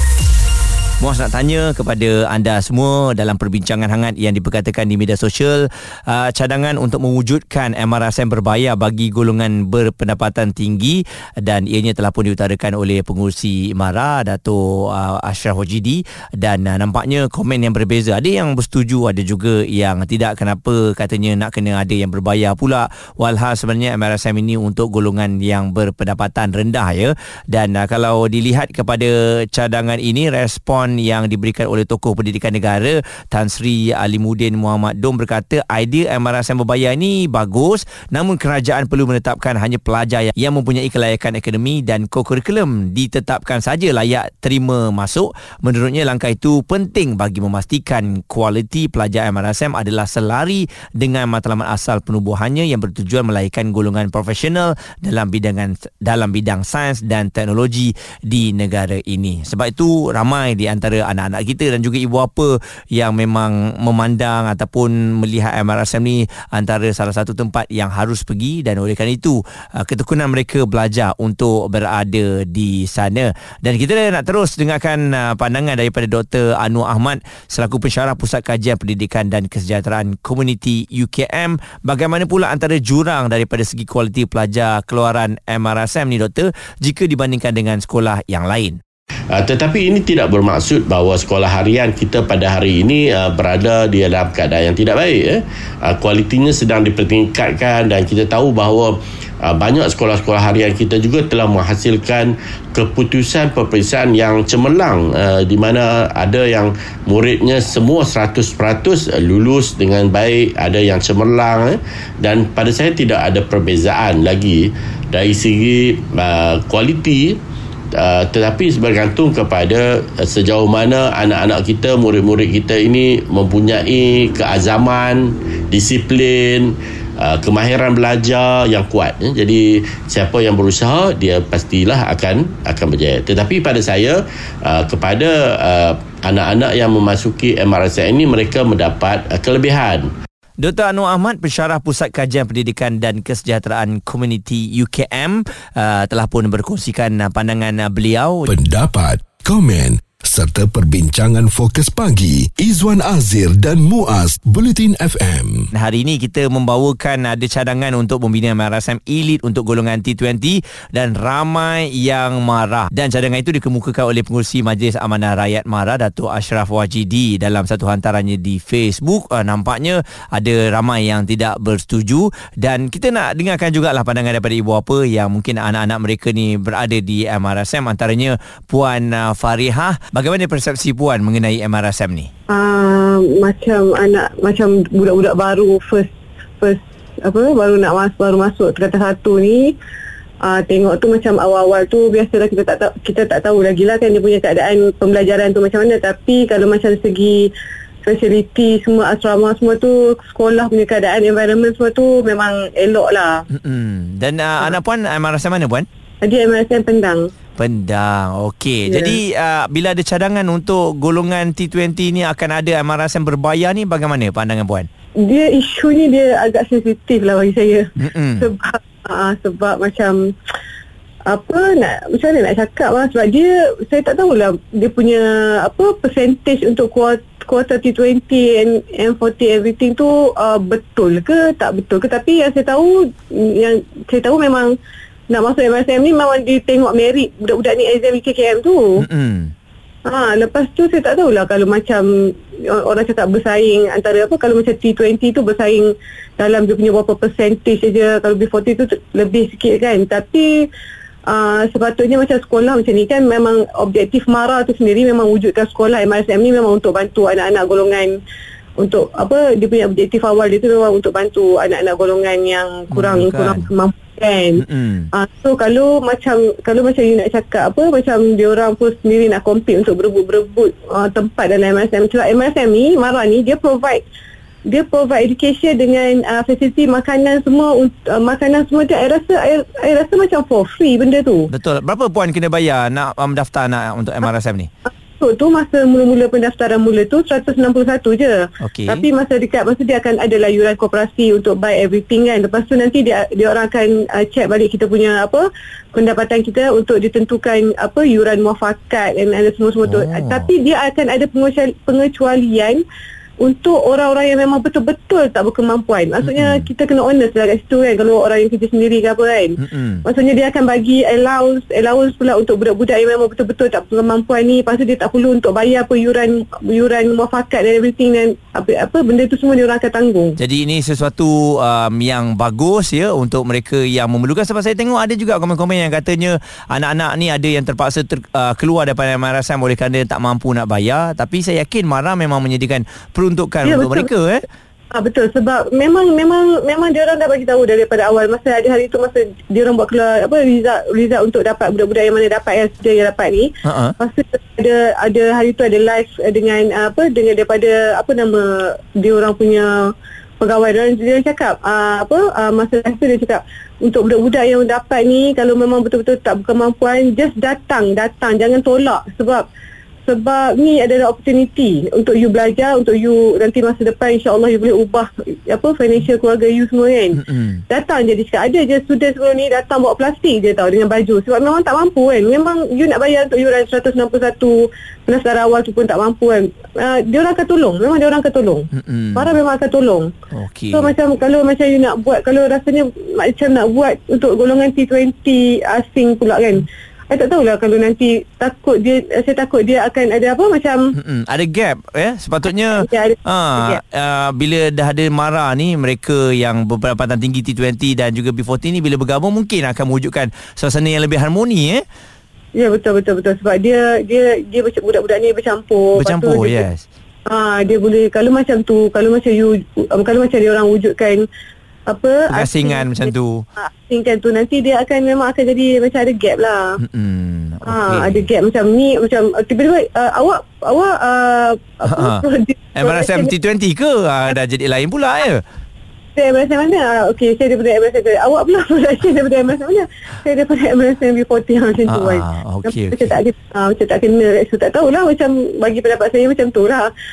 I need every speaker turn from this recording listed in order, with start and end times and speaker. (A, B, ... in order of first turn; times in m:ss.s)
0:01.0-1:28.8 A
1:29.3-1:57.4 B
1:58.0-2:20.1 B
2:20.6-2:28.5 A
2:28.5-2:35.6 C
2:35.7-3:02.3 A
3:02.5-3:09.7 D
3:10.4-3:17.5 D
3:18.0-3:23.4 D
3:23.5-3:25.8 A
3:26.2-3:27.3 D
3:27.6-3:34.9 A
3:28.9-3:29.2 D
3:35.2-3:40.2 D
3:38.0-3:38.5 A
3:41.3-3:54.7 D
3:55.3-3:58.9 D
3:59.0-3:59.5 A
4:00.0-4:10.7 D
4:11.3-4:18.2 D
4:18.8-4:34.0 D
4:22.9-4:23.7 A
4:24.6-4:25.1 A
4:34.7-4:41.5 D
4:41.5-4:44.7 A
4:45.2-5:02.8 D
4:48.6-4:49.0 A
4:59.8-5:00.5 A
5:03.4-5:20.4 D
5:06.2-5:06.7 A
5:09.6-5:10.0 A
5:20.4-5:34.4 A
5:33.6-5:34.1 D
5:34.9-5:59.4 D
5:43.6-5:43.9 A
6:00.0-6:14.6 D
6:07.1-6:07.6 A
6:15.1-6:20.1 D
6:18.7-6:19.3 A
6:20.3-6:20.9 A
6:20.7-6:30.8 D
6:31.0-6:41.8 A
6:32.7-6:33.8 D
6:42.5-6:46.6 D
6:46.0-6:46.8 A
6:47.3-6:51.2 D
6:51.9-6:53.1 D
6:52.3-6:53.4 A
6:53.6-6:56.8 D
6:56.8-6:58.3 A
6:57.7-7:03.3 D
7:01.9-7:02.2 A
7:02.7-7:05.4 A
7:06.1-7:16.9 D
7:11.9-7:13.1 A